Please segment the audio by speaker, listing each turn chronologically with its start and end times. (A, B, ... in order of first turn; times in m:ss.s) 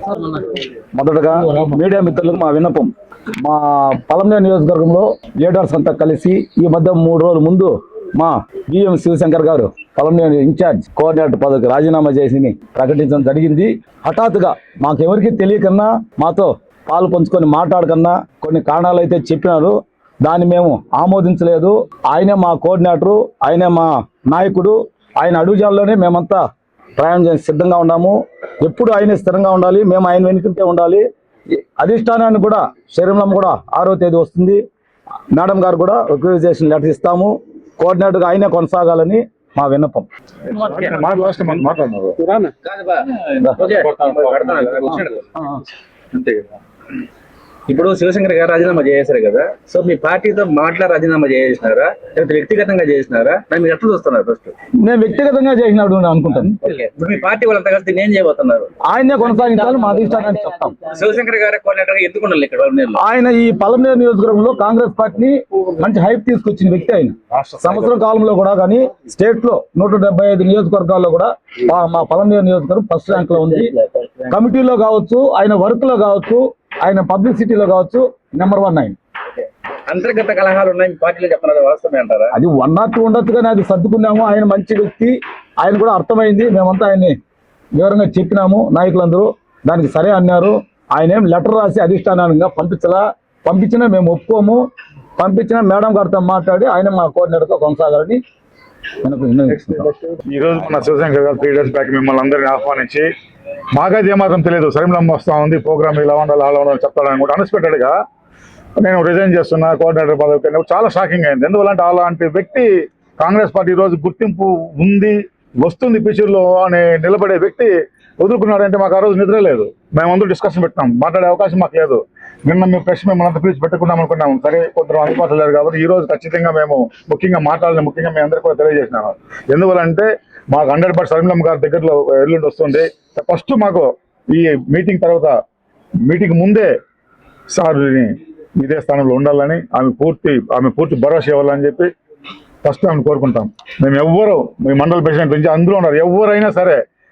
0:01.0-0:26.4 A
0:27.0-0:31.0 A
0:31.6-0:34.6 A
0:35.3-0:40.1 A
0:40.5-0:42.2 B
0:42.6-0:45.3 C
0:43.8-0:44.5 B
0:44.9-0:45.6 A
0:46.1-0:46.5 C
0:47.7-0:54.5 C
0:54.8-0:56.6 A
0:56.6-0:58.7 C
0:58.9-1:00.8 A
0:59.4-1:00.1 C
1:00.8-1:03.0 C
1:03.0-1:13.7 A
1:14.3-1:19.0 A
1:19.9-1:22.3 C
1:22.3-1:27.2 A
1:27.8-1:34.6 A
1:35.2-1:38.2 A
1:39.0-1:39.9 A
1:40.1-1:43.1 B
1:43.8-1:48.0 B
1:48.8-1:52.7 B
1:53.2-2:15.4 B
2:16.1-2:16.7 B
2:17.5-2:21.9 B
2:22.6-2:26.8 B